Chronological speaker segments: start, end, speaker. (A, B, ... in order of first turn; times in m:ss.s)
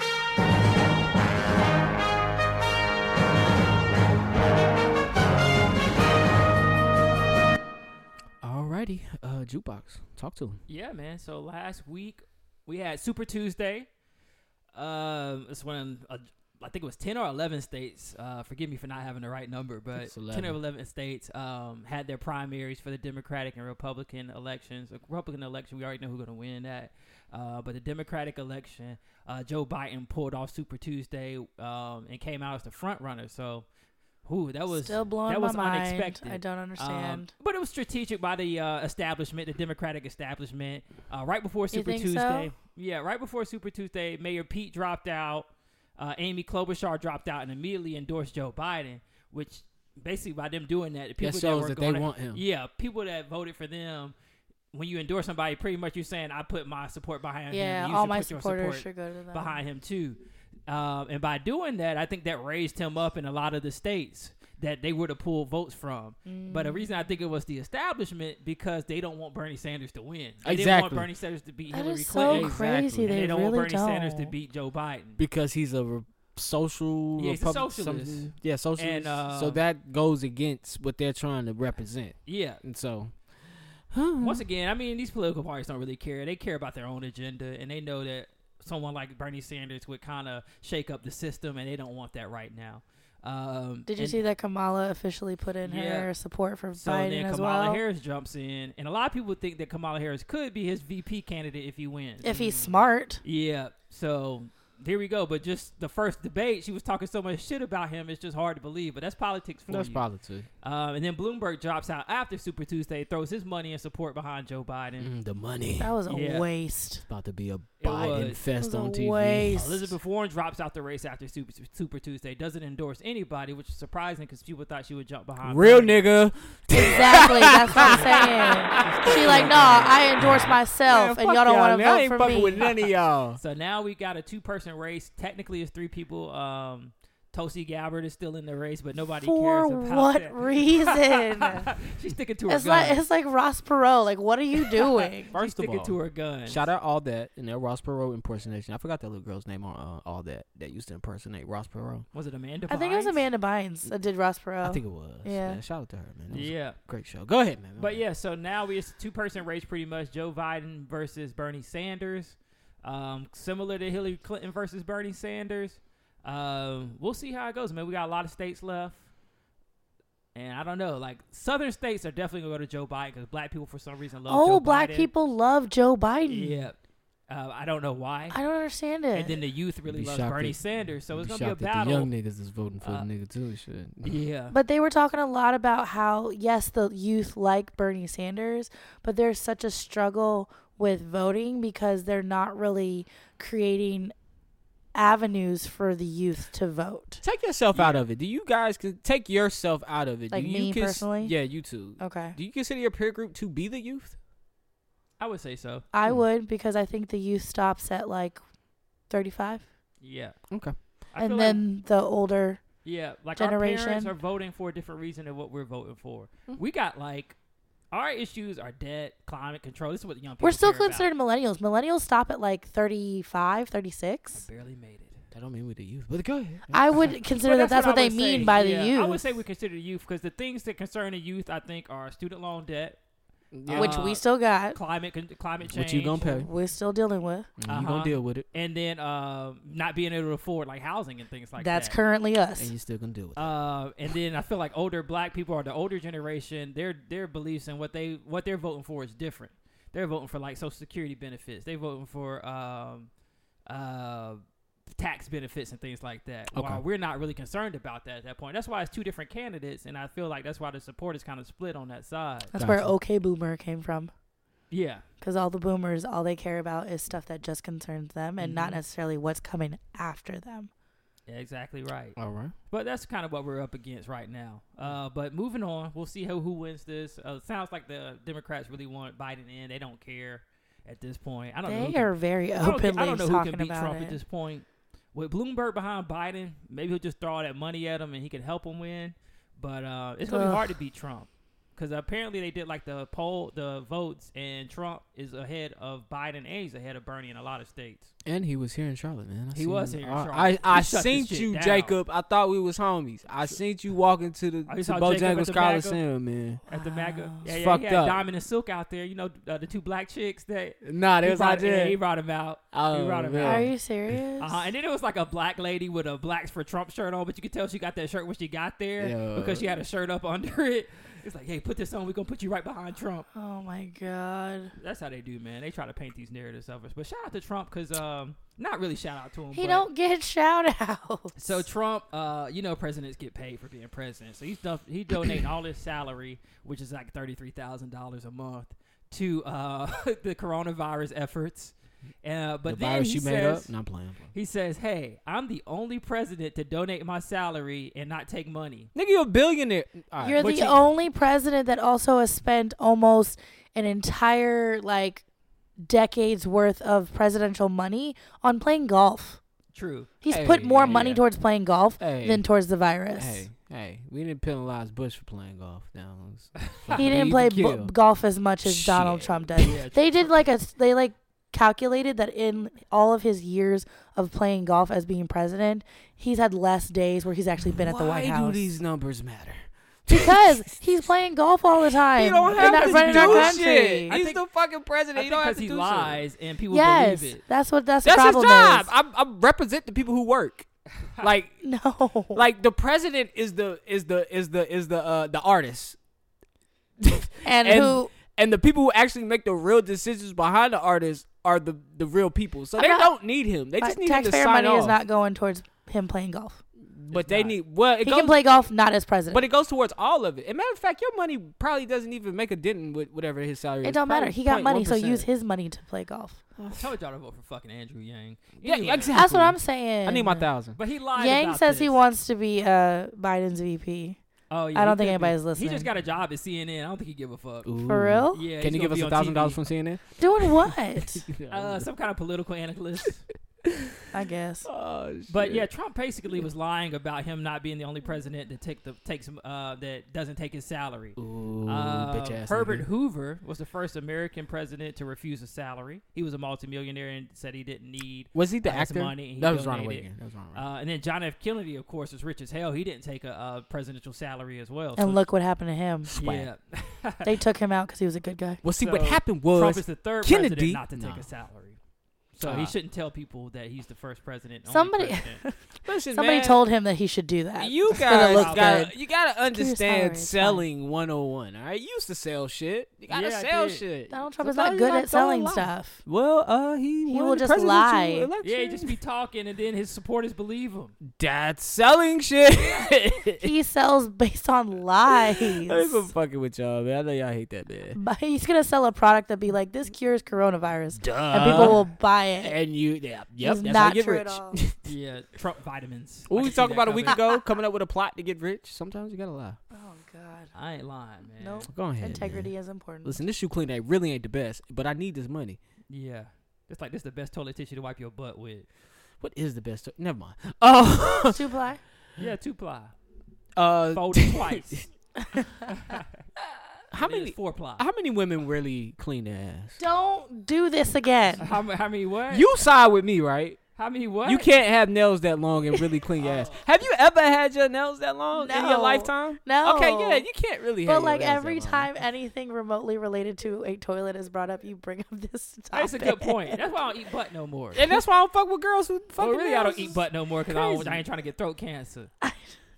0:08.4-0:10.6 A
0:10.7-0:13.9 B
0:14.7-0:33.6 B
0:19.9-0:20.6 A
0:34.2-0:54.1 B
0:34.7-0:37.3 C
0:41.7-0:42.5 C
0:51.2-0:52.4 A
0:54.7-1:15.2 B
0:57.5-0:59.6 C
1:06.2-1:06.8 C
1:10.4-1:11.1 A
1:11.7-1:14.3 C
1:12.2-1:13.2 A
1:15.2-1:23.1 A
1:17.2-1:19.6 B
1:22.2-1:22.6 B
1:23.9-1:24.4 A
1:24.2-1:34.2 B
1:33.9-1:37.8 C
1:35.6-1:36.1 B
1:36.7-1:50.0 B
1:42.2-1:43.2 C
1:49.7-1:50.5 A
1:50.6-1:55.1 B
1:55.0-1:55.9 A
1:55.8-1:57.0 C
1:56.1-1:56.5 B
1:57.1-1:59.6 A
1:57.8-1:58.4 B
1:58.6-1:59.8 C
1:59.5-2:06.0 B
2:05.4-2:13.4 A
2:06.7-2:12.7 C
2:07.7-2:09.9 B
2:13.4-2:23.0 B
2:19.2-2:21.7 C
2:22.5-2:25.3 C
2:25.3-2:26.6 B
2:25.3-2:32.0 A
2:32.1-2:33.2 B
2:32.7-2:35.6 C
2:34.6-2:38.0 A
2:36.3-2:36.8 B
2:37.8-2:49.0 B
2:50.3-2:55.1 B
2:54.3-2:56.6 C
2:56.3-2:56.8 B
2:57.3-2:58.4 B
2:58.3-2:59.3 C
2:59.1-3:02.1 B
2:59.9-3:04.2 A
3:02.8-3:03.1 B
3:04.0-3:04.5 B
3:04.5-3:14.1 C
3:14.9-3:17.2 C
3:17.2-3:24.2 A
3:17.7-3:18.0 B
3:20.3-3:21.3 C
3:22.0-3:22.4 C
3:25.2-3:25.8 B
3:25.9-3:28.4 C
3:29.1-3:29.6 C
3:30.0-3:30.4 B
3:30.5-3:30.8 A
3:31.1-3:31.6 B
3:31.2-3:32.6 C
3:32.8-3:37.4 B
3:33.4-3:34.1 C
3:37.9-3:41.1 B
3:40.4-3:44.4 C
3:44.3-3:45.2 B
3:45.3-3:46.8 A
3:46.7-3:49.2 C
3:47.0-3:53.0 B
3:53.5-3:54.1 A
3:53.7-3:56.4 B
3:53.7-3:54.8 C
3:55.6-3:56.5 A
3:56.4-3:57.5 C
3:57.6-3:58.4 A
3:57.7-4:02.0 B
4:01.6-4:02.7 C
4:02.6-4:03.5 A
4:03.4-4:13.1 B
4:13.7-4:14.4 B
4:15.0-4:22.5 B
4:16.5-4:16.8 A
4:22.5-4:24.1 C
4:22.5-4:22.9 A
4:24.7-4:25.0 B
4:25.2-4:30.7 C
4:28.4-4:28.8 B
4:31.3-4:32.2 B
4:32.2-4:32.5 A
4:32.7-4:58.1 B
4:41.6-4:44.2 C
4:50.3-4:50.6 C
4:58.2-5:06.6 A
4:59.5-5:02.0 B
5:04.7-5:06.0 B
5:06.7-5:13.7 B
5:06.7-5:07.4 C
5:07.4-5:08.2 A
5:10.8-5:12.0 A
5:12.7-5:13.7 A
5:13.4-5:14.6 C
5:14.4-5:23.2 B
5:19.0-5:19.6 A
5:23.3-5:24.7 C
5:24.8-5:29.9 B
5:29.5-5:31.6 C
5:31.4-5:43.7 B
5:42.7-5:44.3 A
5:44.3-5:48.9 B
5:48.9-5:50.5 A
5:50.2-5:55.2 C
5:50.4-5:50.8 B
5:55.8-5:59.4 C
5:59.7-6:00.2 B
6:00.2-6:03.4 C
6:00.3-6:01.2 A
6:00.8-6:01.2 B
6:02.0-6:02.4 A
6:03.1-6:07.9 A
6:06.6-6:07.1 B
6:06.9-6:18.7 C
6:08.6-6:09.6 A
6:09.6-6:10.3 B
6:17.7-6:21.1 A
6:20.1-6:24.2 C
6:22.1-6:26.2 A
6:22.5-6:24.4 B
6:25.1-6:27.4 B
6:26.7-6:28.9 C
6:28.0-6:30.7 A
6:31.2-6:31.6 A
6:31.6-6:32.4 C
6:32.3-6:36.0 A
6:37.0-6:45.0 A
6:37.4-6:38.1 C
6:42.8-6:43.1 C
6:43.8-6:46.6 C
6:46.8-6:48.6 A
6:47.1-6:47.6 B
6:48.0-6:49.4 C
6:49.3-6:55.3 A
6:53.8-6:56.4 C
6:56.6-6:56.9 A
6:56.8-6:59.1 B
6:58.6-7:00.8 A
6:59.1-7:00.5 C
7:00.8-7:02.0 B
7:01.2-7:04.2 C
7:04.5-7:07.7 B
7:04.7-7:05.9 C
7:07.6-7:11.9 A
7:07.8-7:08.4 C
7:08.3-7:09.6 B
7:10.2-7:11.2 C
7:11.5-7:13.2 B
7:13.6-7:14.0 A
7:14.1-7:14.7 C
7:14.6-7:15.7 A
7:15.3-7:35.2 B
7:21.2-7:22.8 A
7:28.3-7:30.6 A
7:35.0-7:36.1 C
7:36.0-7:36.5 A
7:36.2-7:37.3 B
7:37.2-7:38.6 C
7:38.6-7:41.2 A
7:38.8-7:41.8 B
7:42.3-7:45.4 B
7:42.4-7:42.7 A
7:44.7-7:48.9 C
7:45.8-7:46.6 A
7:47.6-7:59.0 A
7:48.1-7:48.8 B
7:49.4-7:50.6 C
7:53.1-7:53.8 B
7:54.1-7:56.0 C
7:57.1-7:58.3 C
7:58.4-8:00.9 B
8:01.1-8:03.5 A
8:03.4-8:06.1 C
8:05.1-8:08.0 A
8:07.9-8:12.6 C
8:11.0-8:11.8 A
8:11.3-8:11.8 B
8:12.4-8:14.9 A
8:13.4-8:14.6 C
8:14.8-8:17.2 B
8:16.3-8:19.6 A
8:19.7-8:20.5 C
8:20.5-8:21.7 B
8:21.4-8:23.2 C
8:21.7-8:22.5 A
8:23.0-8:25.6 A
8:25.9-8:28.7 B
8:29.2-8:31.4 A
8:31.2-8:31.8 C
8:32.2-8:32.9 B
8:33.6-8:34.8 A
8:33.9-8:34.8 B
8:35.2-8:35.5 C
8:35.7-8:36.1 B
8:36.9-8:39.8 A
8:37.0-8:37.8 B
8:39.8-8:41.4 C
8:41.4-8:42.5 B
8:42.3-8:43.6 A
8:43.8-8:44.5 B
8:44.2-8:51.9 A
8:46.2-8:46.6 B
8:48.3-8:50.3 C
8:50.8-8:56.6 C
8:55.7-8:57.9 B
8:57.7-9:01.0 A
8:59.2-9:02.1 B
9:02.2-9:02.5 C